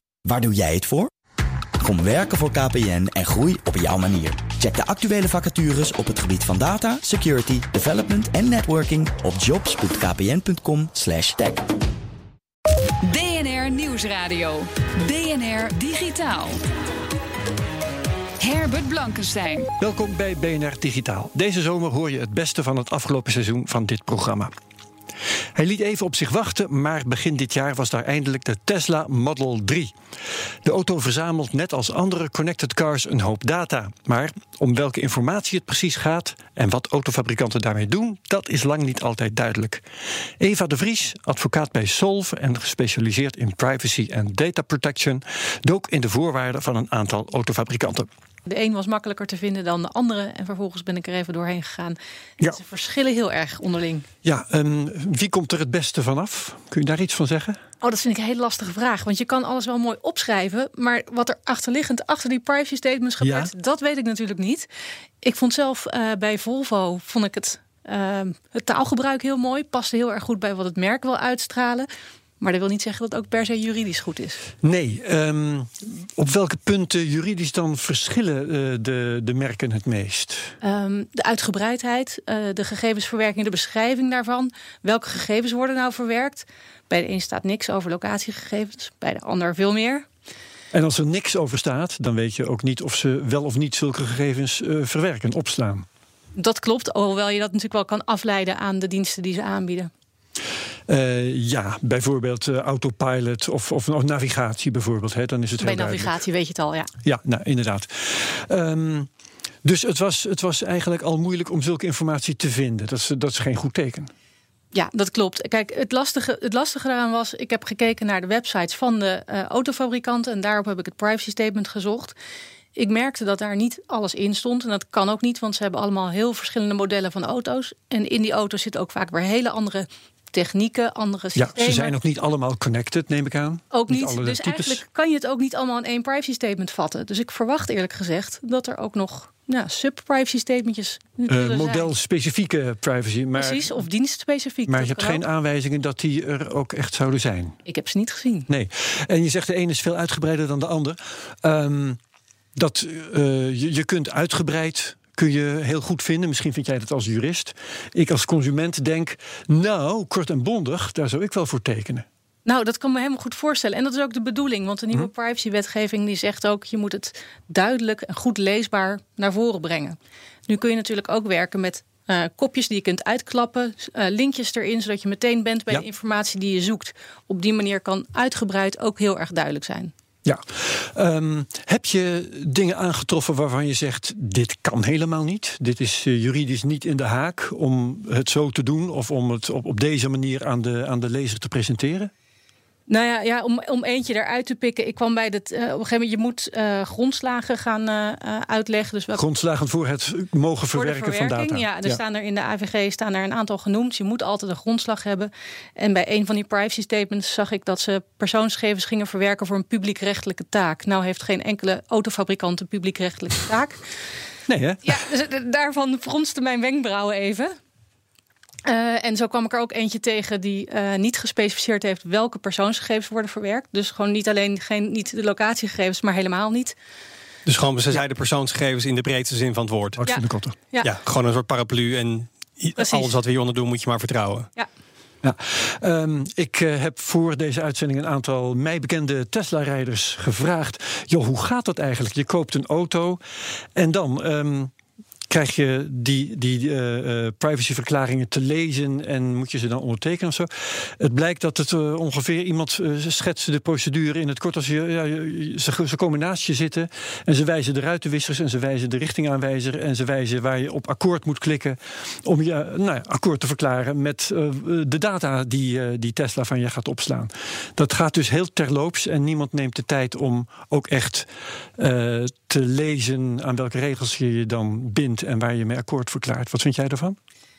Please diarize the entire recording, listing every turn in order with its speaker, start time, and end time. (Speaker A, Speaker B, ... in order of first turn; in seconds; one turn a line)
Speaker A: 0.2-1.1
Speaker A: 1.8-11.7
Speaker B: 13.0-16.6
Speaker B: 18.4-19.7
Speaker C: 19.8-24.5
Speaker C: 25.6-29.9
Speaker C: 30.6-39.8
Speaker C: 40.4-48.1
Speaker D: 48.5-52.0
Speaker D: 52.5-54.1
Speaker C: 54.2-57.6
Speaker D: 57.8-64.7
Speaker C: 63.2-63.5
Speaker D: 65.2-71.9
Speaker D: 72.4-74.4
Speaker C: 74.6-80.5
Speaker D: 80.6-90.1
Speaker C: 90.7-95.9
Speaker D: 96.4-99.9
Speaker C: 100.9-106.2
Speaker D: 105.6-106.9
Speaker C: 107.0-109.1
Speaker C: 109.6-114.1
Speaker D: 114.7-122.1
Speaker D: 122.8-132.0
Speaker C: 131.4-134.8
Speaker D: 133.7-141.9
Speaker C: 141.3-143.8
Speaker D: 143.4-145.2
Speaker C: 144.7-147.6
Speaker D: 147.7-148.5
Speaker C: 148.5-152.0
Speaker C: 152.6-162.1
Speaker D: 162.5-179.9
Speaker C: 180.2-192.1
Speaker D: 192.9-199.2
Speaker C: 199.2-202.0
Speaker D: 200.7-213.8
Speaker C: 214.5-214.9
Speaker D: 214.8-217.6
Speaker D: 218.7-226.8
Speaker E: 227.5-230.0
Speaker C: 230.0-230.6
Speaker D: 230.0-230.9
Speaker E: 230.8-234.5
Speaker D: 232.8-233.2
Speaker C: 235.2-243.2
Speaker C: 243.8-244.7
Speaker C: 245.3-277.2